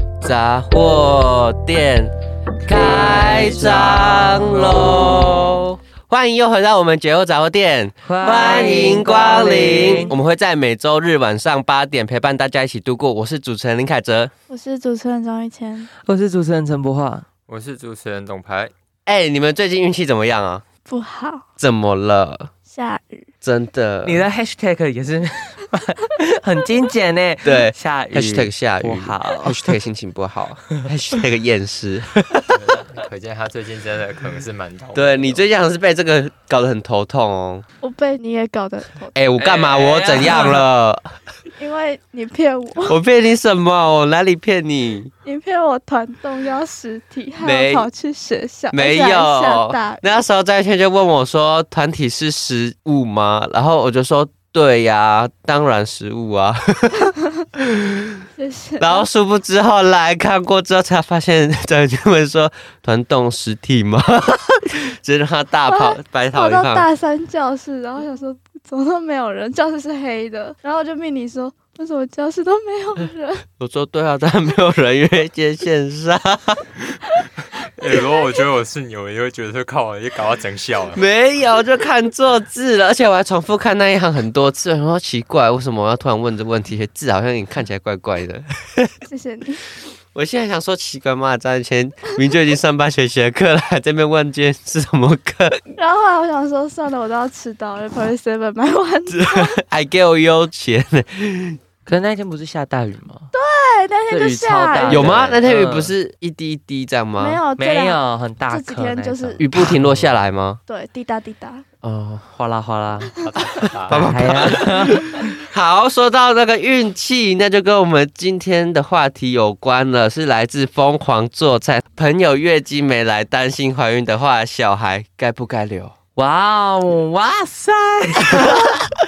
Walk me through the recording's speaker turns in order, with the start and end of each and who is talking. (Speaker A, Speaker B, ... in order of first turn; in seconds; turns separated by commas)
Speaker A: 0.2-2.1, Speaker A: 2.6-14.3, Speaker B: 2.7-5.3, Speaker B: 8.1-10.2, Speaker C: 14.5-15.9, Speaker B: 16.0-17.2, Speaker D: 17.5-18.7, Speaker A: 19.1-20.6, Speaker C: 20.9-21.4, Speaker A: 21.6-22.5, Speaker C: 22.7-23.3, Speaker A: 23.4-24.2, Speaker B: 24.0-29.7, Speaker A: 27.4-32.5, Speaker D: 32.5-35.5, Speaker A: 35.0-37.6, Speaker C: 37.8-39.1, Speaker A: 39.1-41.1, Speaker D: 39.4-40.6, Speaker C: 41.5-43.0, Speaker A: 42.9-45.1, Speaker C: 45.2-50.1, Speaker A: 47.4-47.9, Speaker A: 48.7-57.1, Speaker C: 58.4-59.1, Speaker A: 58.8-66.9, Speaker C: 65.7-73.4, Speaker A: 73.6-76.6, Speaker D: 77.7-81.0, Speaker A: 81.0-88.9, Speaker C: 89.1-89.6, Speaker A: 90.1-95.6, Speaker C: 95.7-99.6, Speaker A: 99.1-101.6, Speaker B: 101.9-103.3, Speaker C: 103.3-105.1, Speaker B: 104.1-106.0, Speaker A: 104.9-107.4, Speaker C: 107.2-109.5, Speaker B: 107.6-110.2, Speaker A: 109.4-110.6, Speaker C: 110.7-111.7, Speaker A: 111.8-112.3, Speaker B: 112.3-113.2, Speaker D: 113.2-114.2, Speaker A: 113.9-126.0, Speaker B: 113.9-115.3, Speaker B: 126.2-128.8